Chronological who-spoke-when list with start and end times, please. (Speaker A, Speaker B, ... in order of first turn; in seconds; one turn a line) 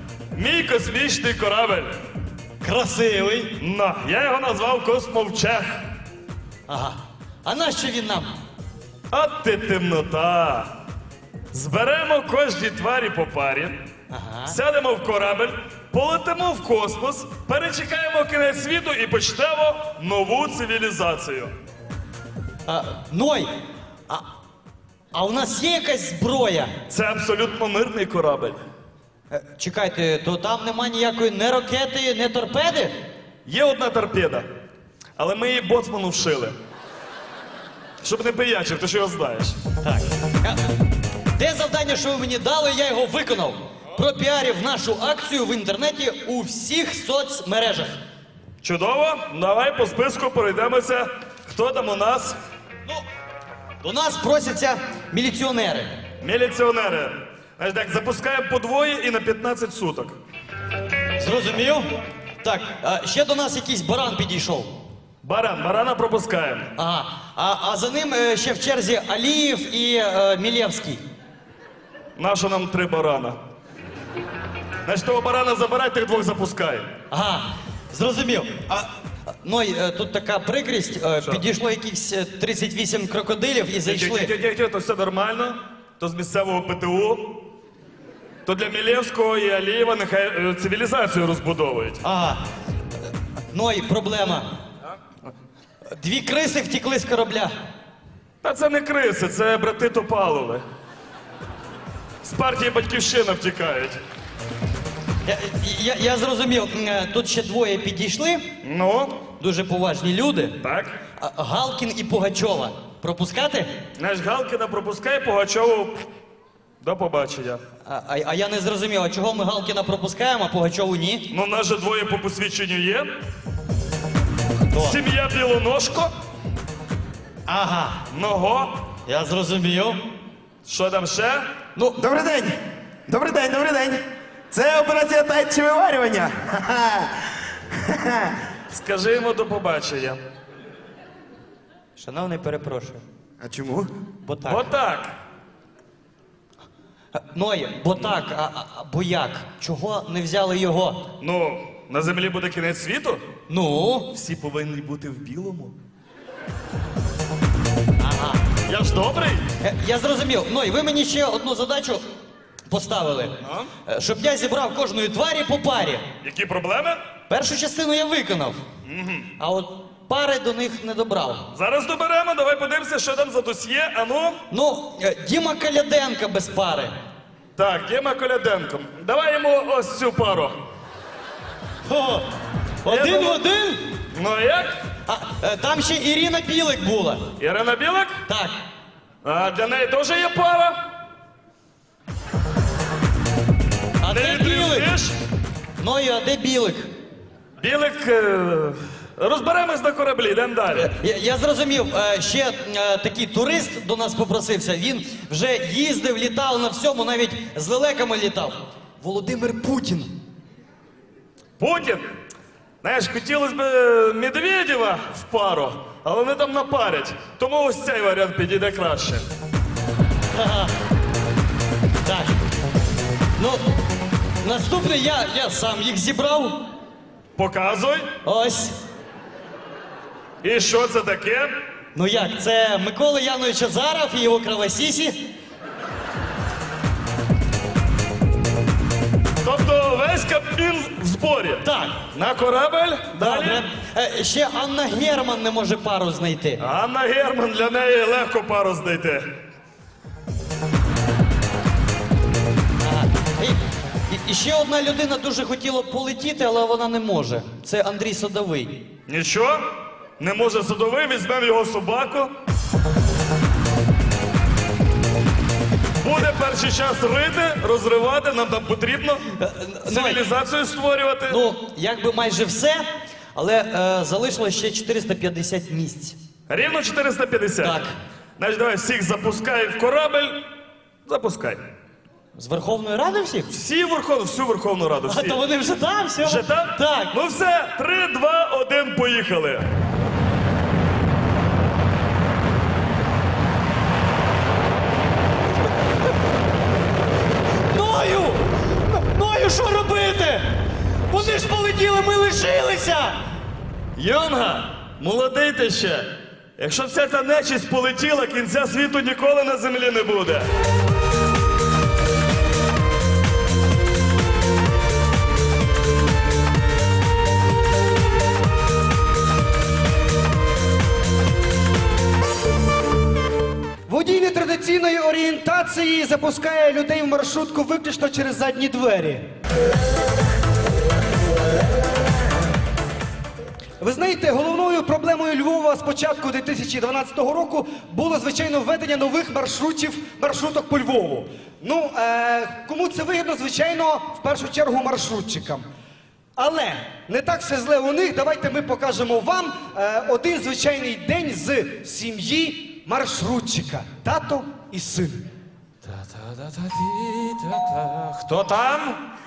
Speaker A: 0.3-1.9
Speaker B: 2.6-3.5
Speaker A: 3.6-5.8
Speaker B: 6.7-8.3
Speaker A: 9.1-10.7
Speaker A: 11.5-13.8
Speaker B: 14.1-14.6
Speaker A: 14.5-21.5
Speaker B: 22.7-23.5
Speaker B: 25.1-26.7
Speaker A: 26.9-28.6
Speaker B: 29.3-32.9
Speaker A: 33.5-34.5
Speaker A: 35.2-36.6
Speaker A: 38.0-39.6
Speaker B: 39.8-40.6
Speaker B: 41.4-48.0
Speaker A: 48.6-52.4
Speaker B: 53.8-55.9
Speaker A: 56.2-60.2
Speaker B: 61.2-61.9
Speaker B: 62.4-64.7
Speaker A: 65.2-66.7
Speaker B: 66.8-71.0
Speaker A: 72.2-73.4
Speaker A: 74.9-76.9
Speaker B: 77.1-78.9
Speaker B: 79.4-84.3
Speaker A: 83.8-87.4
Speaker A: 88.5-92.0
Speaker B: 92.0-92.4
Speaker B: 93.5-94.5
Speaker B: 96.0-97.5
Speaker A: 98.4-100.6
Speaker A: 102.2-104.0
Speaker B: 105.3-108.5
Speaker A: 108.6-109.2
Speaker B: 109.4-110.6
Speaker A: 110.6-111.0
Speaker B: 111.2-113.7
Speaker A: 114.0-116.0
Speaker A: 116.8-117.6
Speaker B: 117.8-121.3
Speaker A: 121.3-123.1
Speaker B: 124.7-125.0
Speaker A: 124.8-126.1
Speaker B: 127.5-128.0
Speaker A: 128.1-128.7
Speaker B: 129.1-130.0
Speaker A: 130.7-131.5
Speaker C: 132.0-132.6
Speaker C: 133.1-138.3
Speaker A: 138.7-140.2
Speaker B: 142.0-143.0
Speaker C: 143.4-143.9
Speaker B: 144.2-144.7
Speaker A: 144.4-145.1
Speaker B: 147.2-151.1
Speaker A: 151.2-153.2
Speaker B: 153.5-154.1
Speaker A: 154.1-155.8
Speaker B: 158.0-158.4
Speaker A: 158.7-159.5
Speaker B: 159.6-162.0
Speaker B: 162.7-166.1
Speaker A: 163.4-163.7
Speaker A: 166.2-167.0
Speaker B: 167.3-168.7
Speaker A: 168.9-169.3
Speaker B: 169.4-171.4
Speaker A: 171.5-174.4
Speaker B: 174.5-176.9
Speaker A: 177.6-180.6
Speaker B: 181.9-182.2
Speaker B: 182.8-183.8
Speaker A: 182.9-183.4
Speaker A: 184.1-184.7
Speaker B: 185.1-187.3
Speaker A: 187.4-188.2
Speaker B: 188.3-188.6
Speaker A: 189.2-190.8
Speaker B: 194.0-195.0
Speaker A: 194.1-195.2
Speaker B: 195.8-196.9
Speaker A: 197.6-200.9
Speaker B: 200.7-210.1
Speaker A: 211.6-212.1
Speaker A: 212.8-219.2
Speaker B: 220.3-220.7
Speaker B: 222.1-222.3
Speaker B: 223.4-223.6
Speaker B: 224.4-226.6
Speaker A: 227.4-228.1
Speaker B: 228.2-228.8
Speaker A: 230.4-231.5
Speaker B: 231.9-235.2
Speaker A: 239.4-243.7
Speaker B: 241.6-242.0
Speaker B: 243.2-246.6
Speaker A: 246.6-249.3
Speaker B: 252.8-258.8
Speaker A: 259.1-259.6
Speaker A: 260.2-262.3
Speaker A: 266.0-269.2
Speaker B: 269.4-270.3
Speaker A: 269.9-271.4
Speaker B: 271.3-276.2
Speaker A: 276.5-277.8
Speaker B: 277.6-278.0
Speaker A: 278.4-280.4
Speaker A: 281.1-281.6
Speaker B: 282.4-283.5
Speaker A: 283.5-285.4
Speaker B: 285.1-287.1
Speaker A: 286.2-289.7
Speaker B: 297.7-300.5
Speaker B: 301.1-303.2
Speaker A: 304.0-310.5
Speaker D: 323.9-329.3
Speaker D: 333.8-345.7
Speaker D: 346.4-355.3
Speaker E: 355.8-359.0